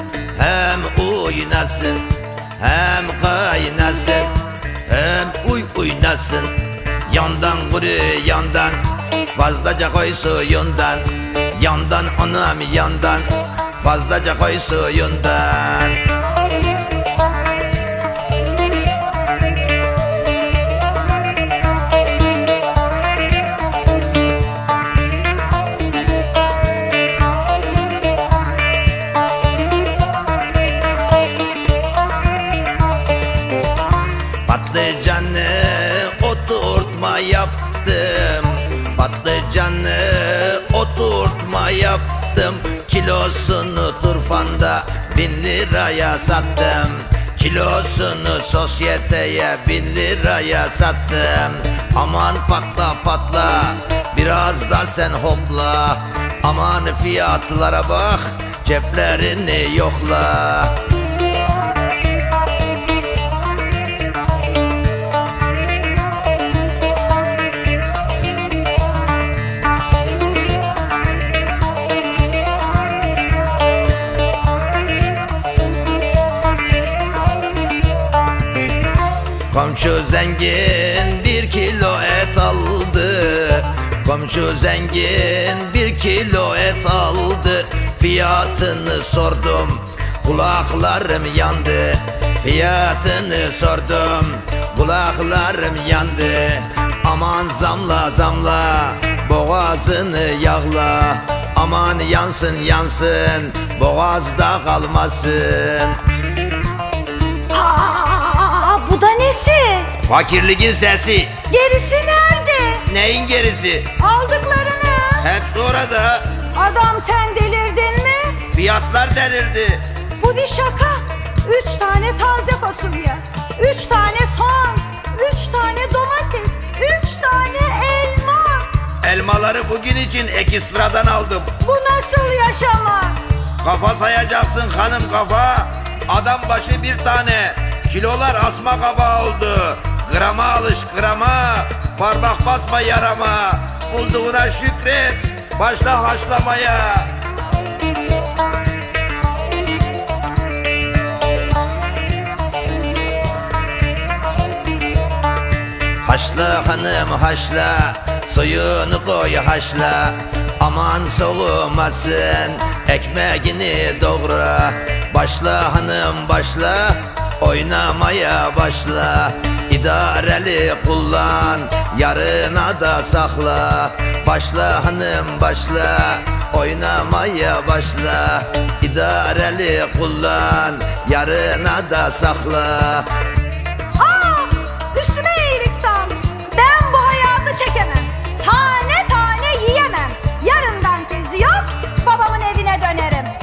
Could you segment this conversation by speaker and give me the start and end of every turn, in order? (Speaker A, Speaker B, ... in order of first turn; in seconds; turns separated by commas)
Speaker A: 0.3-2.1, Speaker A: 2.6-4.3, Speaker A: 4.9-6.5, Speaker A: 7.1-8.8, Speaker A: 9.3-13.3, Speaker A: 13.8-16.0, Speaker A: 34.4-60.8, Speaker A: 79.5-106.0, Speaker B: 107.5-109.9, Speaker A: 110.0-111.3, Speaker B: 111.5-112.8, Speaker A: 112.9-113.9, Speaker B: 114.0-115.2, Speaker A: 115.2-116.4, Speaker B: 116.5-118.4, Speaker A: 118.5-119.8, Speaker B: 120.2-128.7, Speaker A: 129.0-131.5, Speaker B: 131.6-133.2, Speaker A: 133.6-147.1, Speaker A: 156.0-183.1, Speaker B: 184.0-193.3